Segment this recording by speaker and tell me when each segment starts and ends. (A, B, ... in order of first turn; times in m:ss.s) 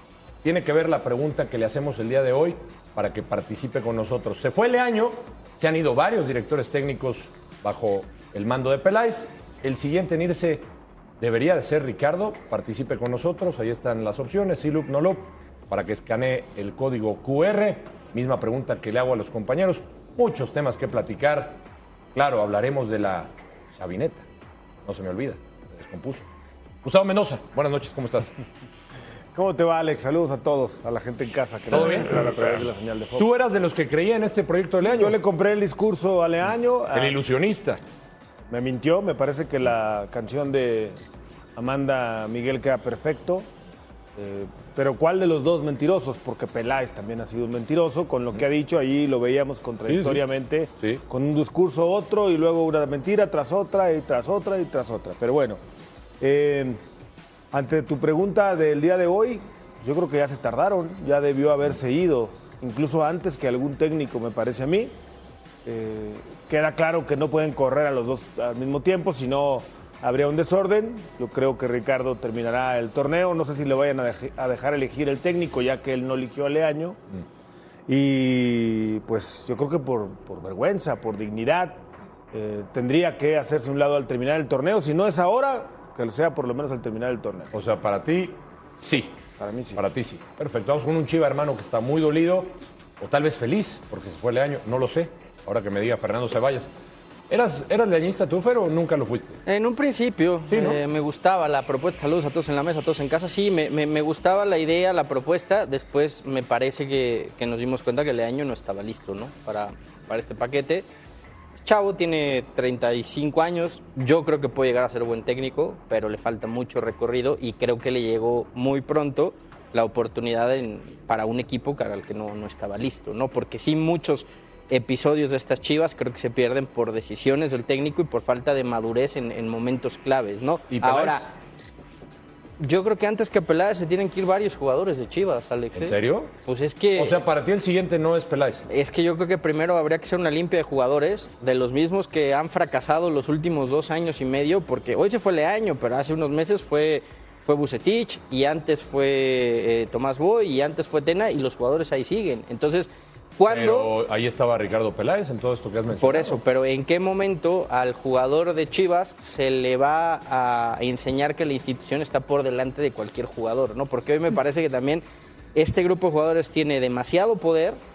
0:00.4-0:10.6 A
0:11.2-0:21.6 A
0:22.1-0:24.2 A
0:24.8-0:26.2 A
0:26.8-0:28.3 A
0:29.3-0:33.2 B
0:31.7-0:35.2 A
0:34.8-0:37.2 B
0:36.9-0:37.8 A
0:38.5-0:41.0 B
0:41.6-0:43.5 B
0:44.2-0:55.6 B
0:49.9-0:50.2 A
0:56.2-0:56.8 B
0:57.5-1:04.9 B
1:05.6-1:17.0 B
1:17.9-1:21.8 B
1:22.3-1:27.5 B
1:27.5-1:29.1 A
1:29.4-1:29.8 B
1:29.8-1:36.7 A
1:37.3-1:39.4 A
1:39.4-1:50.8 C
1:40.5-1:40.8 A
1:51.6-2:11.2 C
2:10.7-2:11.2 A
2:12.6-2:17.2 C
2:15.7-2:16.3 A
2:17.0-2:18.6 A
2:18.7-2:33.9 C
2:33.5-2:36.4 A
2:36.0-2:45.0 C
2:45.5-2:47.8 C